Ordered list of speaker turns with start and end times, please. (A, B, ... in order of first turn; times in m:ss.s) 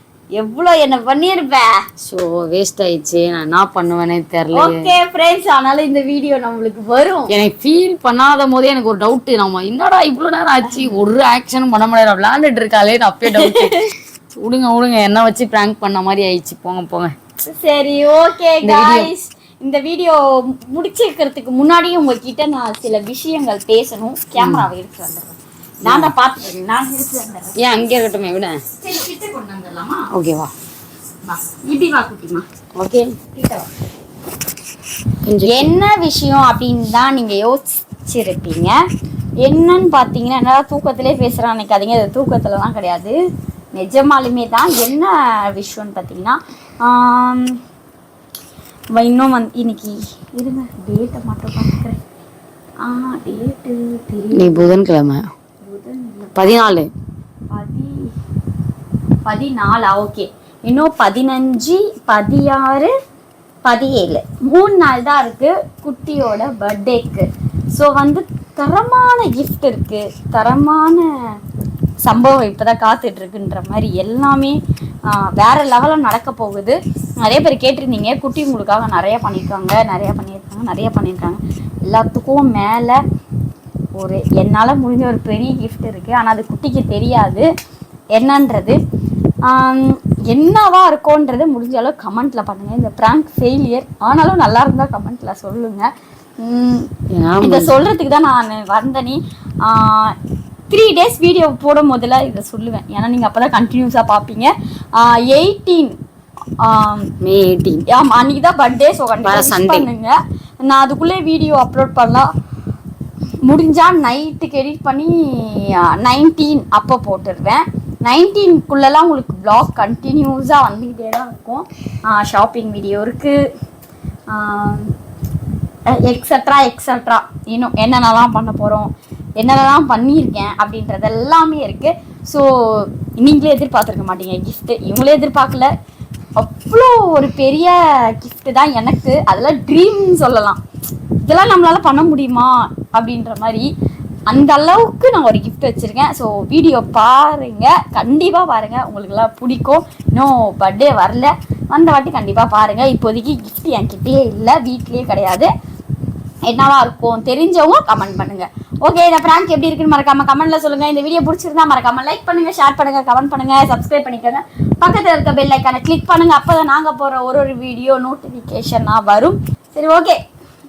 0:00.4-0:01.8 A
0:02.0-0:04.9 B
0:04.5-0:07.3 A
0:07.3-0:13.8 B
0:10.7-0:11.0 A
0:13.2-0:13.9 A
0:14.3-0:17.1 B
0:17.4-0:27.7 A
0:18.6-0:19.1 B
0:24.4-0:24.7 B
0:25.9-0:26.1 B
0:27.6-0:28.6 B
0:28.8-0:30.1 A
0:30.1-0:30.5 B
0:31.3-0:32.5 A
0:32.8-0:33.2 B
0:33.4-0:33.7 A
0:35.2-0:35.7 B
0:35.4-0:38.8 A
0:39.4-0:43.2 A
0:43.7-0:47.6 A
0:48.9-0:52.0 A
0:52.8-0:54.8 A
0:54.3-0:55.2 B
0:55.6-0:56.6 A
0:56.4-0:56.9 B
0:57.5-0:58.1 A
0:59.3-1:02.9 A
1:03.6-1:11.1 A
1:12.0-1:23.0 A
1:24.0-1:27.5 A
1:28.2-1:28.8 A
1:29.5-1:35.9 A
1:36.4-1:36.9 A
1:37.2-1:37.8 B
1:37.4-1:40.2 A
1:40.7-1:46.0 A
1:46.6-1:47.1 A
1:47.2-1:47.8 B
1:47.9-1:50.1 A
1:49.2-1:49.9 B
1:50.6-1:52.3 A
1:53.5-2:03.4 A
2:04.3-2:04.9 A
2:05.9-2:15.7 A
2:16.4-2:20.6 A
2:21.3-2:23.7 A
2:24.3-2:35.5 A
2:36.5-2:50.2 A